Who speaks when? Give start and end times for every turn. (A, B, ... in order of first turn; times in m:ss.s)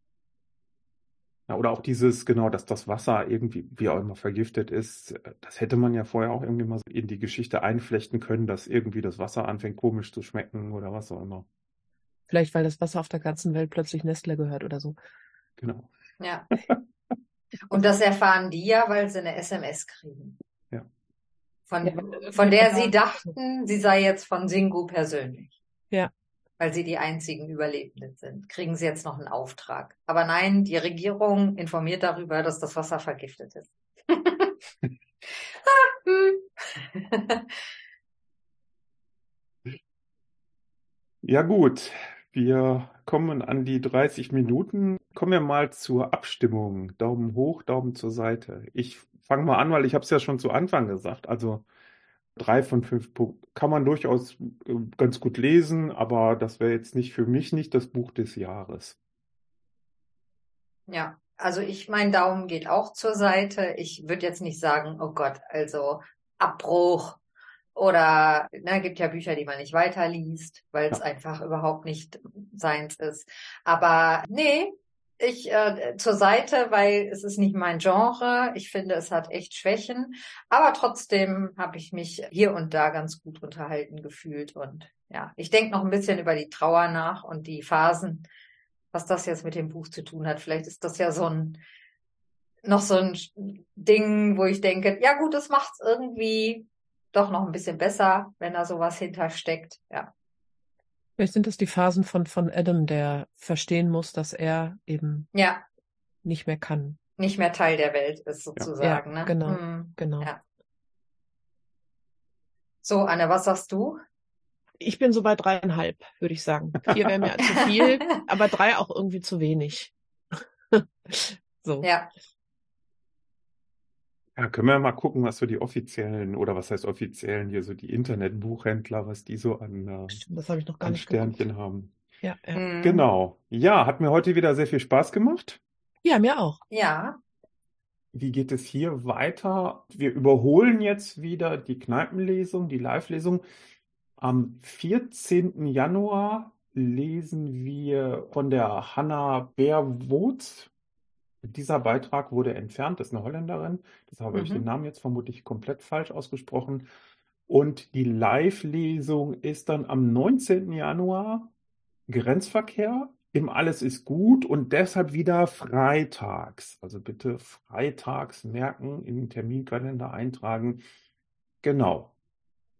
0:01.5-0:11.4 A
0:12.3-0:15.0 B
0:15.6-0:15.9 A
0:16.2-0:16.5 C
0:17.7-0:20.4 C
0:21.7-0:25.6 C
0:21.8-0:22.9 B
0:26.6-0:34.5 C
0:35.5-0:37.5 C
0:41.2-0:51.6 A
0:52.4-0:59.0 A
1:00.9-1:07.2 C
1:07.7-1:28.3 C
1:28.9-1:31.6 C
1:32.6-1:40.1 C
1:41.2-1:45.2 B
1:45.3-1:45.6 C
1:46.2-1:47.0 B
1:47.2-1:50.4 C
1:48.8-1:50.3 B
1:52.8-1:54.0 C
1:54.8-2:01.9 B
1:56.9-1:57.3 A
1:57.4-1:58.2 C
2:01.8-2:02.1 C
2:04.4-2:10.2 A
2:10.1-2:11.4 B
2:10.8-2:12.0 A
2:12.2-2:12.6 B
2:12.5-2:13.0 C
2:12.8-2:15.6 A
2:16.0-2:16.6 B
2:16.7-2:17.2 C
2:18.1-2:23.4 A
2:24.2-2:30.7 A
2:31.4-2:36.9 A
2:34.3-2:34.6 C
2:37.5-2:41.5 A
2:42.1-2:50.8 A
2:51.6-2:52.1 A